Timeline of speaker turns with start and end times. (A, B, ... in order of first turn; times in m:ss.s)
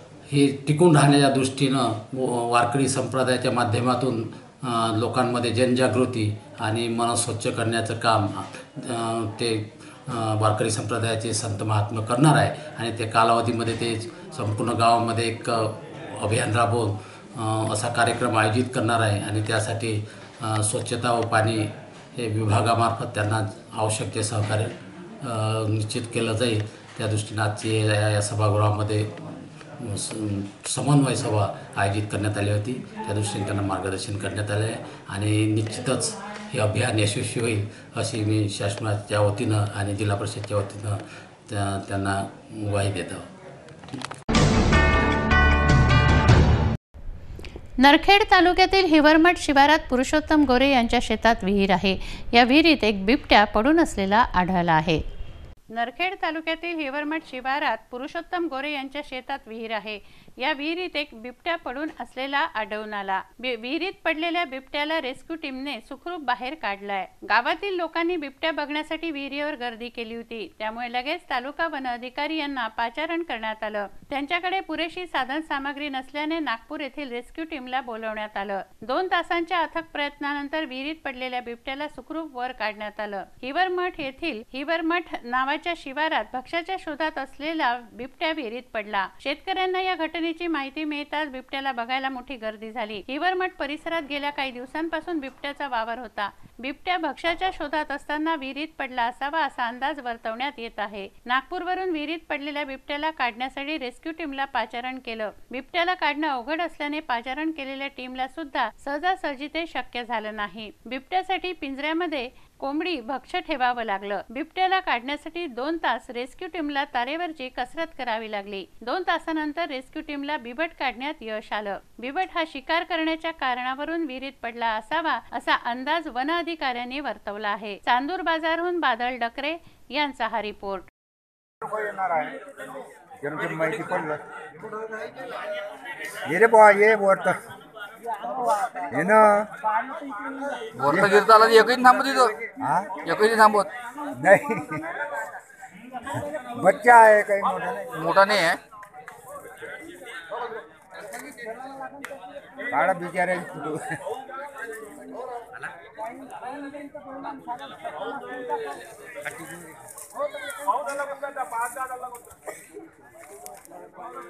0:00.3-0:24.7 A
0:25.2-0:43.3 A
0:47.8-0:55.0 B
0:55.7-2:10.9 B
2:11.6-2:12.4 C
2:13.2-2:14.2 C
2:16.3-2:17.4 C
2:18.8-2:19.4 C
2:20.8-2:23.1 C
2:20.8-2:22.3 D
2:23.0-2:23.7 D
2:24.2-2:24.8 C
2:26.5-2:28.2 C
2:28.0-2:28.6 D
2:32.7-2:33.8 C
2:39.2-2:39.6 C